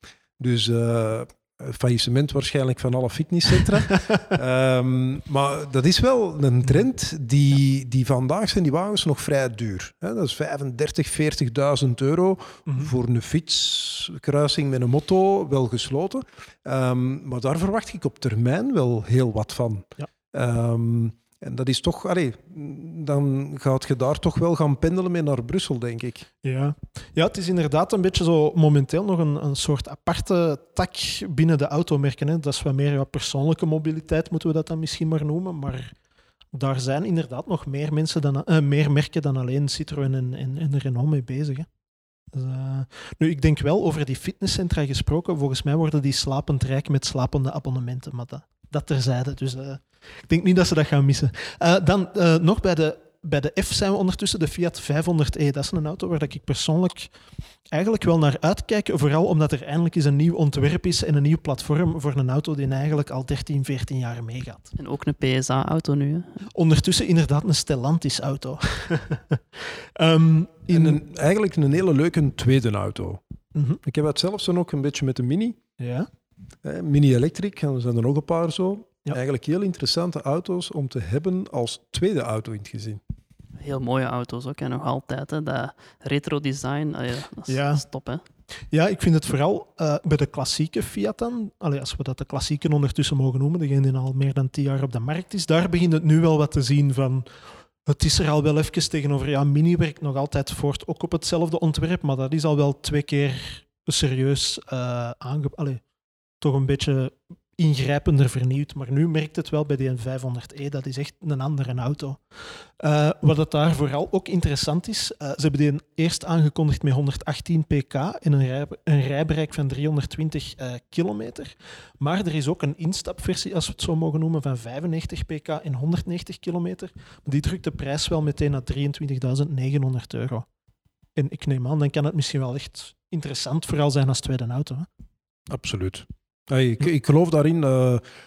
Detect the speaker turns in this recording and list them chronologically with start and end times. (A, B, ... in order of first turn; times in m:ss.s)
0:00.4-0:26.3 A
0:12.7-0:12.9 B
0:26.4-0:35.9 B
0:36.5-0:41.7 B
0:42.3-0:57.1 B
0:57.7-1:04.7 B
1:04.7-1:06.4 C
1:06.5-1:11.0 B
1:10.7-1:13.2 A
1:13.5-1:13.8 B
1:13.8-1:15.6 A
1:15.8-1:16.1 B
1:16.6-1:23.0 A
1:23.6-1:28.2 C
1:27.5-1:27.8 B
1:28.7-1:37.3 B
1:37.8-1:45.8 B
1:46.4-2:10.4 B
2:11.2-2:14.9 B
2:15.5-2:18.0 A